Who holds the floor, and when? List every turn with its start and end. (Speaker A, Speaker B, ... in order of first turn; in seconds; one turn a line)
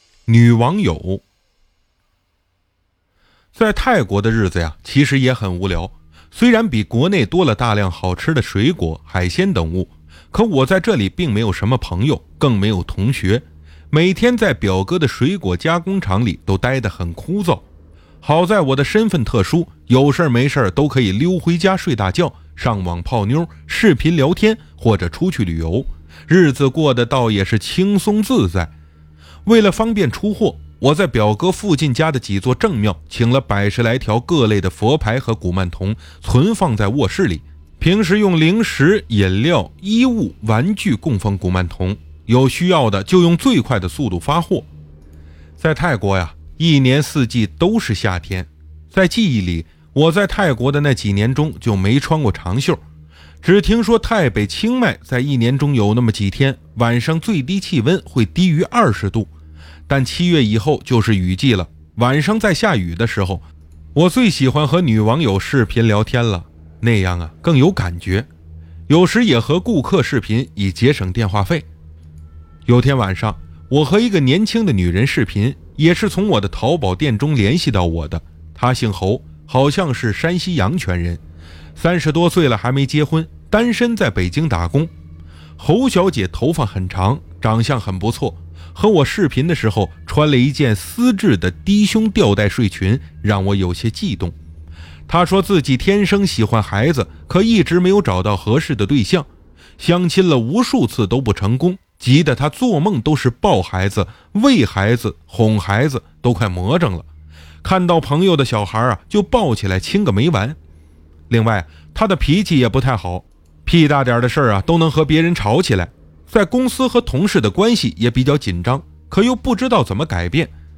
Speaker A: 0.3-1.2
Speaker A: 3.5-17.6
Speaker A: 18.2-28.7
Speaker A: 29.4-44.7
Speaker A: 45.6-52.8
Speaker A: 53.4-59.3
Speaker A: 59.9-68.3
Speaker A: 68.9-71.7
Speaker A: 72.7-81.2
Speaker A: 81.8-84.9
Speaker A: 85.6-94.3
Speaker A: 95.1-99.3
Speaker A: 99.8-107.1
Speaker A: 107.6-110.6
Speaker A: 111.3-120.5